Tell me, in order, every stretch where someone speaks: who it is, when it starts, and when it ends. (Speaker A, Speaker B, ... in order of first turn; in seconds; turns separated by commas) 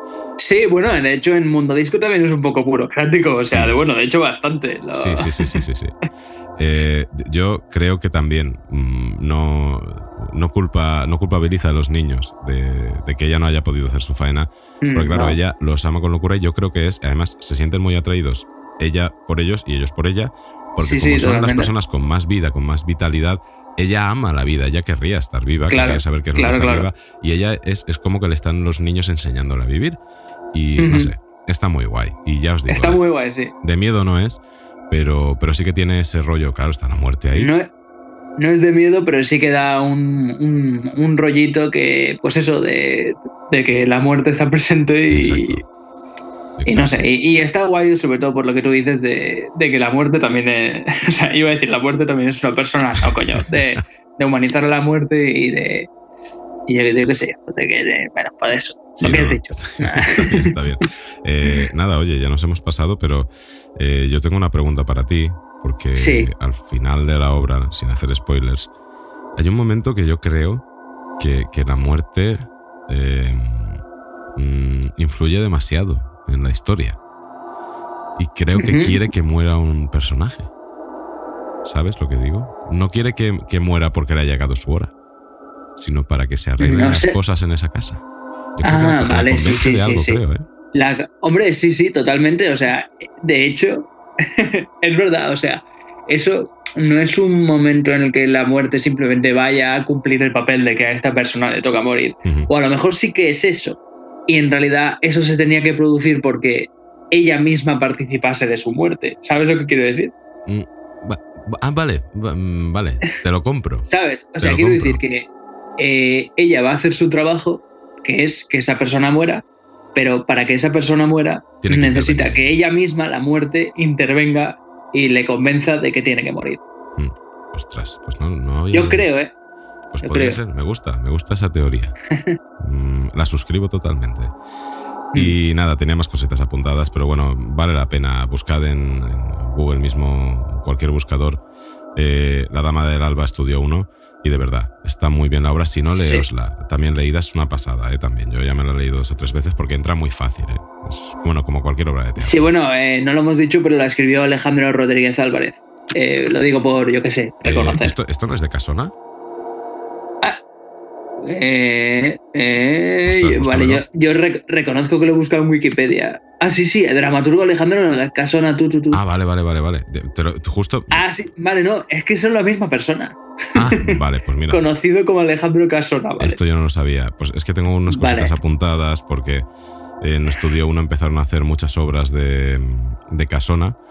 Speaker A: 0.4-5.5, Speaker B: 3.3-3.8, Speaker B: 4.9-5.9, Speaker B: 6.6-30.0, Speaker A: 14.8-15.3, Speaker A: 20.8-21.7, Speaker A: 25.7-26.9, Speaker B: 30.5-33.0, Speaker A: 30.8-31.1, Speaker A: 32.7-33.5, Speaker B: 33.6-37.5, Speaker A: 37.3-37.7, Speaker A: 38.4-45.6, Speaker B: 45.1-45.6, Speaker B: 46.6-47.1, Speaker A: 46.7-55.9, Speaker A: 56.7-60.5, Speaker B: 59.0-68.7, Speaker A: 65.9-66.3, Speaker B: 69.3-70.6, Speaker B: 71.2-73.8, Speaker B: 74.3-77.0, Speaker B: 78.2-80.5, Speaker A: 78.6-79.0, Speaker B: 81.6-84.9, Speaker B: 85.8-88.0, Speaker A: 86.6-87.2, Speaker B: 88.6-90.5, Speaker A: 88.6-90.2, Speaker A: 90.7-110.1, Speaker B: 110.5-113.9, Speaker A: 113.9-126.6, Speaker B: 114.4-115.0, Speaker B: 121.6-122.5, Speaker B: 127.0-129.0, Speaker A: 128.7-129.3, Speaker B: 129.9-131.9, Speaker A: 130.0-130.4, Speaker B: 132.6-134.3, Speaker B: 135.1-141.4, Speaker B: 141.9-152.5, Speaker A: 145.9-146.2, Speaker A: 152.2-157.9, Speaker B: 157.4-158.9, Speaker A: 161.2-169.0, Speaker B: 163.1-163.8, Speaker B: 168.9-171.0, Speaker A: 170.9-173.8, Speaker B: 173.5-174.6, Speaker A: 174.5-176.4, Speaker B: 176.2-179.4, Speaker A: 177.9-178.3, Speaker B: 180.0-183.8